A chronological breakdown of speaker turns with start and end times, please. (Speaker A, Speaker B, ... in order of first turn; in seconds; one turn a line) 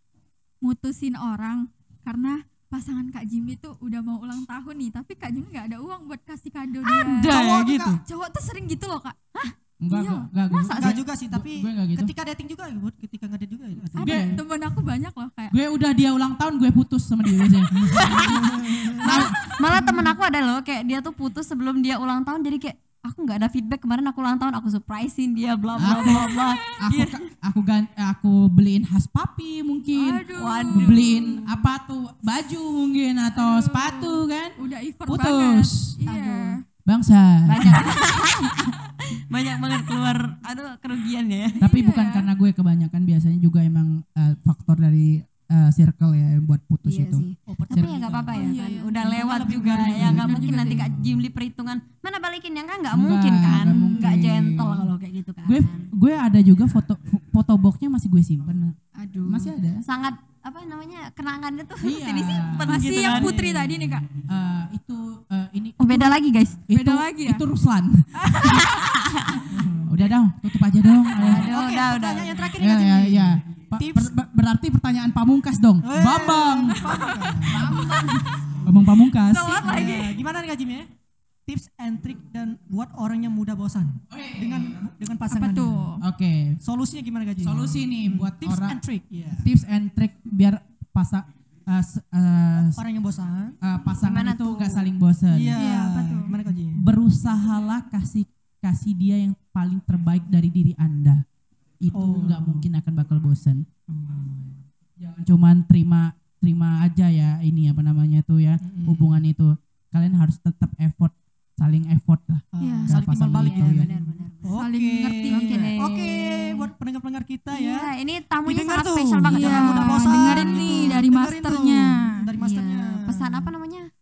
Speaker A: 0.6-7.4
Speaker B: 6.8-8.0
Speaker C: 7.2-8.0
Speaker D: 7.3-8.0
Speaker A: 8.0-9.2
Speaker C: 9.8-12.1
Speaker A: 9.9-10.3
Speaker B: 10.5-11.0
Speaker D: 10.7-14.3
Speaker B: 13.9-14.4
Speaker C: 14.0-14.4
Speaker A: 14.0-15.5
Speaker C: 15.5-18.5
Speaker D: 17.8-19.0
Speaker B: 17.8-27.2
Speaker C: 19.0-19.5
Speaker A: 19.1-20.1
Speaker C: 25.8-35.9
Speaker A: 25.8-26.4
Speaker A: 29.9-31.4
Speaker B: 30.3-31.4
Speaker A: 33.3-36.6
Speaker B: 36.0-36.6
Speaker C: 36.9-38.0
Speaker B: 37.5-41.6
Speaker A: 41.6-42.3
Speaker C: 41.6-47.9
Speaker B: 46.9-55.9
Speaker D: 47.5-50.2
Speaker A: 48.3-49.0
Speaker C: 49.8-50.2
Speaker A: 49.8-50.9
Speaker C: 52.9-54.9
Speaker A: 53.5-54.1
Speaker C: 55.4-58.7
Speaker A: 59.0-59.4
Speaker B: 59.2-63.4
Speaker C: 59.2-59.8
Speaker C: 61.8-62.7
Speaker A: 62.6-64.1
Speaker D: 62.8-63.9
Speaker C: 64.3-68.7
Speaker B: 65.8-66.6
Speaker A: 66.7-67.5
Speaker A: 68.2-68.9
Speaker B: 68.4-69.4
Speaker D: 69.5-70.0
Speaker C: 69.8-71.5
Speaker D: 71.2-74.1
Speaker B: 71.2-72.4
Speaker C: 72.6-76.9
Speaker D: 75.8-78.9
Speaker A: 76.8-77.9
Speaker C: 77.5-79.9
Speaker B: 77.7-78.2
Speaker B: 79.2-80.2
Speaker D: 79.6-80.9
Speaker D: 81.5-85.9
Speaker C: 84.1-84.9
Speaker A: 85.3-86.0
Speaker C: 86.0-86.6
Speaker D: 86.6-89.5
Speaker C: 87.4-88.8
Speaker C: 89.4-92.8
Speaker D: 92.8-93.6
Speaker C: 93.6-95.6
Speaker B: 94.0-94.9
Speaker D: 95.3-96.8
Speaker A: 95.5-96.3
Speaker C: 96.8-101.2
Speaker C: 101.8-103.7
Speaker D: 101.9-102.6
Speaker D: 103.9-104.6
Speaker C: 105.0-113.9
Speaker D: 108.6-109.2
Speaker D: 112.5-117.9
Speaker A: 112.6-112.9
Speaker B: 113.3-114.6
Speaker A: 114.5-115.7
Speaker B: 115.2-116.7
Speaker B: 117.5-121.0
Speaker D: 118.4-123.5
Speaker A: 119.2-122.2
Speaker B: 122.4-123.9